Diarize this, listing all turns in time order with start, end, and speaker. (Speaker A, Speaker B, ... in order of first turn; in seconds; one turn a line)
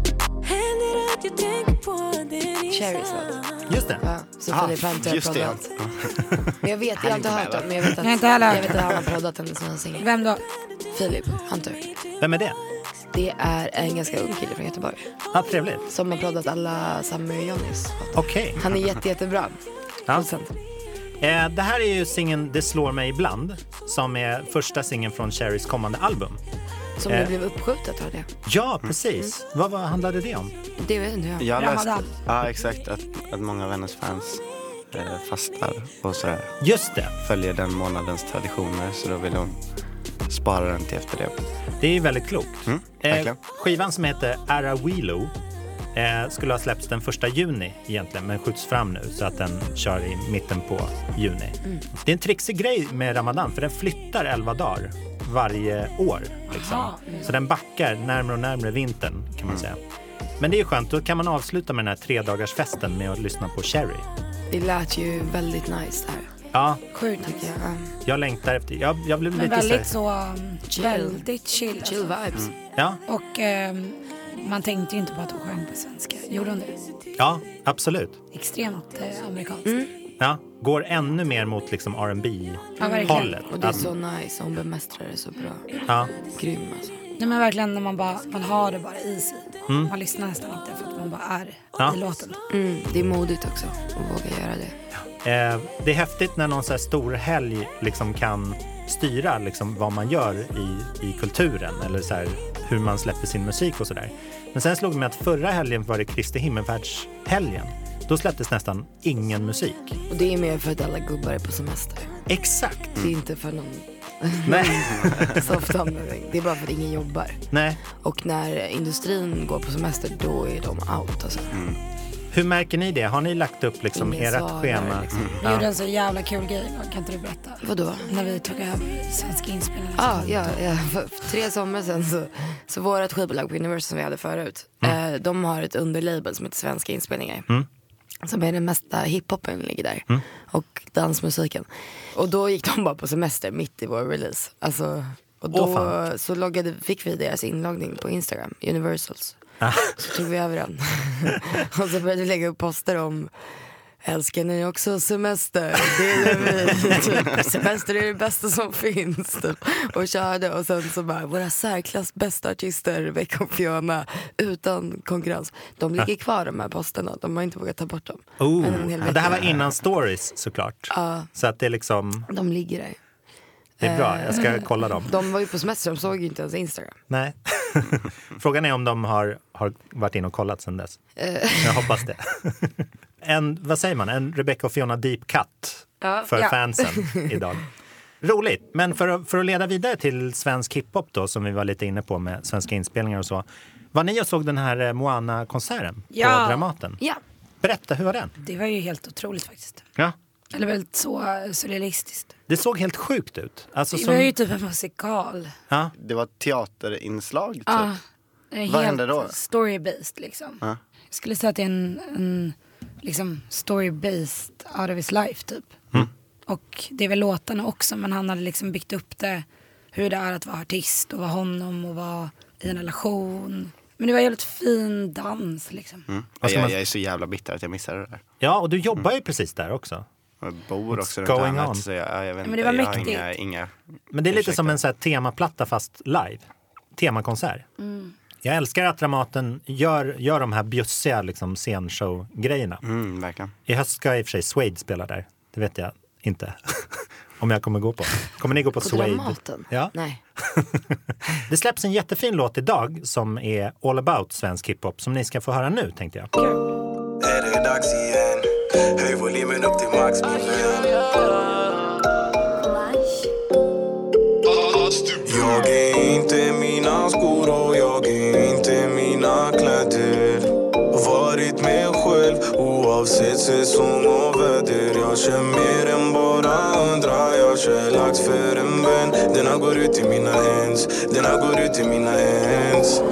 Speaker A: 0.4-3.6
Speaker B: 2.7-3.4
Speaker C: 3.7-4.0
Speaker B: 4.0-5.7
Speaker D: 4.5-9.1
Speaker B: 6.6-10.2
Speaker E: 8.0-8.6
Speaker E: 10.0-10.4
Speaker B: 10.9-11.8
Speaker C: 12.2-12.6
Speaker B: 13.1-15.0
Speaker C: 15.3-15.9
Speaker B: 15.9-19.6
Speaker C: 18.1-18.6
Speaker B: 20.1-20.5
Speaker C: 21.2-26.4
Speaker B: 27.0-28.3
Speaker C: 28.4-30.5
Speaker B: 30.8-31.5
Speaker D: 31.4-36.5
Speaker E: 31.5-32.1
Speaker C: 36.6-37.1
Speaker D: 37.1-39.6
Speaker D: 40.3-41.4
Speaker C: 41.8-45.3
Speaker D: 42.7-43.4
Speaker C: 45.9-59.8
Speaker E: 56.5-57.3
Speaker C: 60.4-64.0
Speaker B: 64.5-66.3
Speaker C: 66.5-66.8
Speaker E: 66.9-67.5
Speaker B: 67.2-67.9
Speaker C: 68.0-69.9
Speaker E: 69.3-72.2
Speaker B: 70.7-71.2
Speaker B: 71.8-72.5
Speaker E: 73.1-76.8
Speaker C: 77.2-78.2
Speaker E: 78.3-79.8
Speaker B: 79.6-79.9
Speaker C: 80.2-83.9
Speaker E: 82.8-83.3
Speaker B: 82.8-87.0
Speaker E: 87.2-92.4
Speaker B: 92.5-94.7
Speaker C: 95.2-110.0
Speaker B: 110.1-112.2
Speaker C: 112.3-113.0
Speaker B: 113.0-121.6
Speaker C: 114.4-115.4
Speaker D: 114.9-115.3
Speaker C: 117.5-117.8
Speaker D: 121.5-121.8
Speaker C: 122.3-125.7
Speaker B: 123.9-125.4
Speaker E: 125.4-130.6
Speaker B: 127.6-128.1
Speaker B: 129.9-137.5
Speaker B: 138.2-153.3
Speaker C: 145.5-145.9
Speaker C: 149.6-149.9
Speaker B: 154.0-169.6
Speaker C: 168.4-172.3
Speaker B: 170.9-171.3
Speaker B: 172.3-173.0
Speaker B: 173.8-177.0
Speaker C: 173.8-175.1
Speaker C: 177.1-181.0
Speaker B: 181.2-181.9
Speaker C: 181.6-187.6
Speaker B: 186.0-186.3
Speaker B: 186.9-187.2
Speaker C: 188.2-197.0
Speaker E: 196.1-196.7
Speaker C: 197.6-198.3
Speaker E: 198.4-199.8
Speaker E: 200.5-202.3
Speaker C: 202.5-204.3
Speaker E: 203.9-205.5
Speaker D: 205.9-207.9
Speaker E: 207.7-208.0
Speaker E: 208.5-215.8
Speaker D: 208.7-209.3
Speaker E: 216.5-226.1
Speaker D: 226.1-228.2
Speaker C: 226.4-226.8
Speaker C: 228.4-230.0
Speaker D: 230.4-233.7
Speaker C: 230.9-231.8
Speaker E: 232.4-233.3
Speaker C: 234.1-237.7
Speaker D: 234.3-234.8
Speaker E: 237.8-238.1
Speaker C: 238.4-242.8
Speaker D: 242.8-243.5
Speaker C: 243.7-249.9
Speaker B: 248.8-250.2
Speaker C: 250.5-250.8
Speaker C: 251.5-256.3
Speaker F: 257.2-261.8
Speaker F: 264.5-283.0